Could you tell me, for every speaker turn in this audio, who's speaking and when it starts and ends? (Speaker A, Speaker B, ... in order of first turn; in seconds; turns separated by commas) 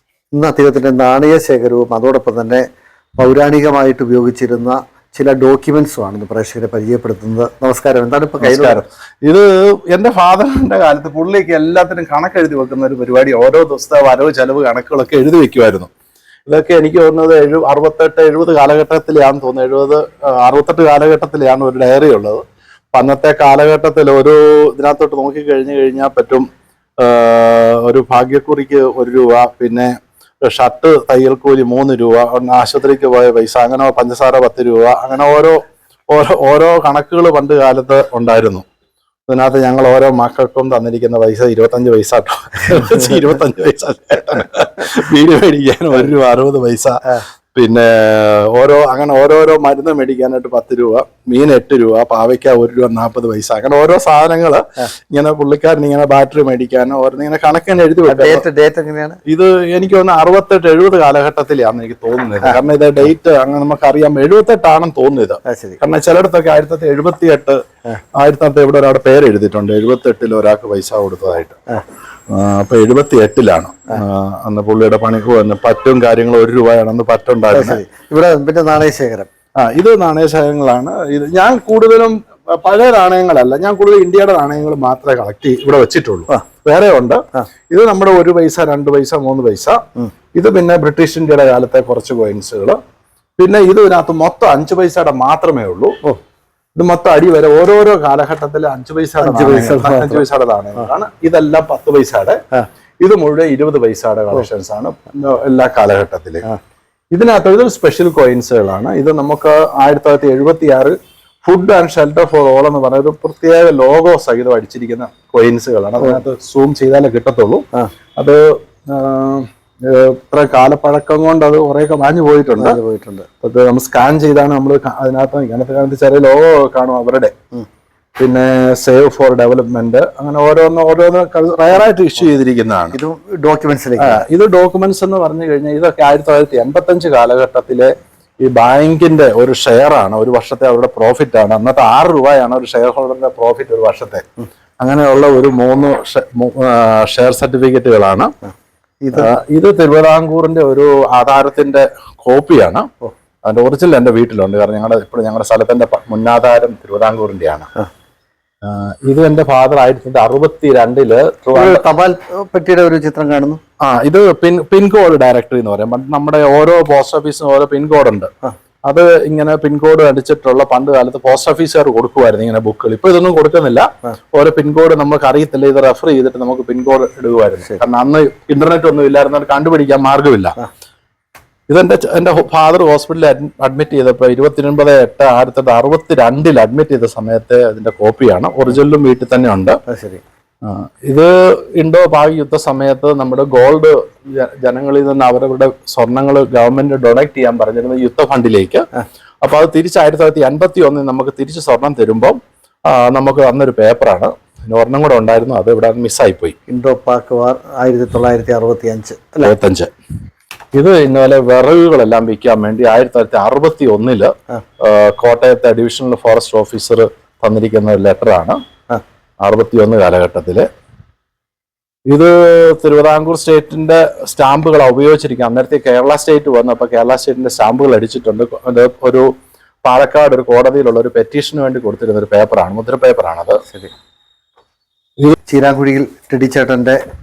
Speaker A: 0.3-2.6, Speaker A: 3.2-8.8, Speaker B: 8.4-15.9, Speaker B: 16.5-26.5, Speaker B: 27.0-35.6, Speaker B: 36.1-38.6, Speaker B: 39.3-47.0, Speaker B: 47.5-58.4, Speaker A: 58.1-59.2, Speaker B: 59.3-67.6, Speaker A: 65.5-65.8, Speaker B: 68.2-71.6, Speaker B: 72.3-77.8, Speaker A: 77.5-79.3, Speaker B: 79.6-89.8, Speaker B: 90.3-92.8, Speaker B: 93.4-96.0, Speaker B: 96.8-102.4, Speaker A: 99.2-100.2, Speaker B: 103.0-106.4, Speaker B: 107.1-117.7, Speaker B: 118.2-122.8, Speaker A: 122.6-123.3, Speaker B: 123.4-127.3, Speaker B: 128.2-132.9, Speaker A: 132.9-134.2, Speaker B: 134.0-144.3, Speaker B: 144.8-148.3, Speaker A: 149.0-149.3, Speaker B: 149.1-152.9, Speaker B: 153.4-157.7, Speaker B: 158.6-161.8, Speaker A: 161.5-163.6, Speaker B: 163.8-168.3, Speaker B: 168.9-180.6, Speaker B: 181.7-189.8, Speaker A: 189.9-190.2, Speaker B: 190.6-198.9, Speaker B: 199.4-206.6, Speaker A: 206.7-209.5, Speaker B: 209.4-209.9, Speaker B: 210.8-218.6, Speaker B: 219.4-220.7, Speaker B: 222.1-229.3, Speaker B: 229.8-233.6, Speaker A: 235.5-237.0